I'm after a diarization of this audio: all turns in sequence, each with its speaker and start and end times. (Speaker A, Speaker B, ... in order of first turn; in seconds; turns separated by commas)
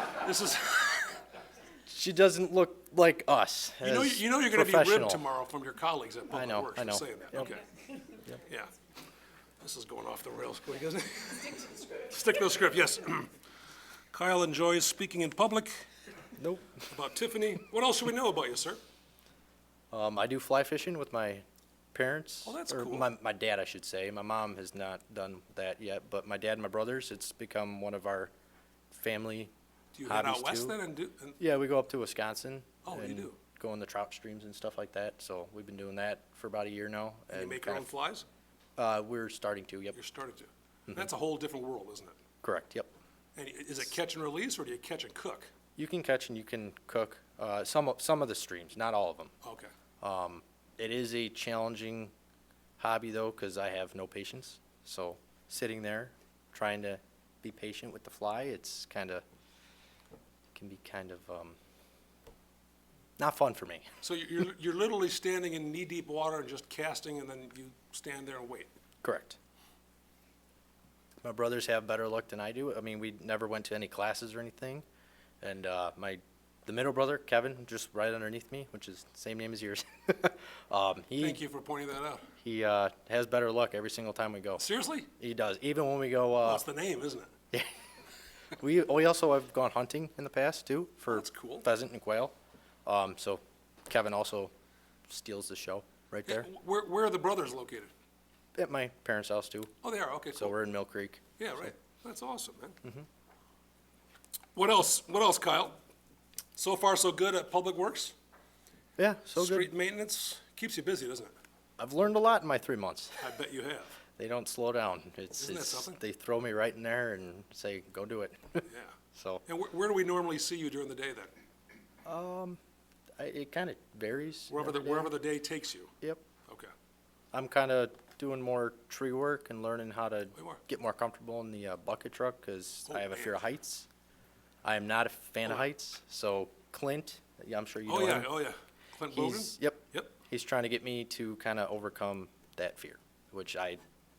Speaker A: 0.2-1.1, Speaker B: 1.9-5.2, Speaker A: 3.8-7.6, Speaker B: 6.3-7.5, Speaker A: 8.5-8.7, Speaker A: 9.6-13.3, Speaker A: 14.1-15.8, Speaker B: 16.4-16.7, Speaker A: 16.9-18.8, Speaker B: 19.9-28.3, Speaker A: 22.4-23.1, Speaker B: 28.9-29.5, Speaker A: 29.9-31.4, Speaker B: 30.0-30.8, Speaker B: 31.4-37.9, Speaker A: 32.8-33.4, Speaker A: 37.3-38.2, Speaker B: 38.8-40.0, Speaker A: 39.9-42.1, Speaker B: 42.4-42.9, Speaker A: 43.4-45.5, Speaker B: 45.8-49.3, Speaker A: 49.4-49.7, Speaker B: 50.0-52.1, Speaker B: 52.8-59.2, Speaker B: 60.5-61.6, Speaker B: 63.2-63.9, Speaker A: 64.0-68.7, Speaker B: 69.0-69.4, Speaker B: 71.2-74.8, Speaker B: 75.4-81.4, Speaker A: 81.2-82.2, Speaker B: 82.4-84.6, Speaker A: 84.6-85.1, Speaker B: 85.2-86.7, Speaker A: 86.4-87.3, Speaker B: 88.5-92.3, Speaker A: 91.1-91.7, Speaker B: 92.8-94.5, Speaker B: 95.1-96.5, Speaker A: 96.2-97.9, Speaker B: 98.5-99.7, Speaker A: 99.8-100.5, Speaker B: 100.3-101.7, Speaker A: 101.4-102.8, Speaker A: 104.5-105.8, Speaker A: 106.5-108.1, Speaker B: 109.0-109.7, Speaker A: 109.3-111.3, Speaker B: 111.8-113.3, Speaker A: 113.2-113.9, Speaker B: 114.2-119.4, Speaker A: 115.4-116.0, Speaker A: 118.7-118.9, Speaker A: 119.5-121.3, Speaker B: 122.0-122.6, Speaker B: 123.2-125.1, Speaker A: 124.5-125.9, Speaker B: 127.3-133.9, Speaker A: 132.9-133.4, Speaker B: 134.6-138.3, Speaker A: 137.9-140.1, Speaker B: 139.1-143.8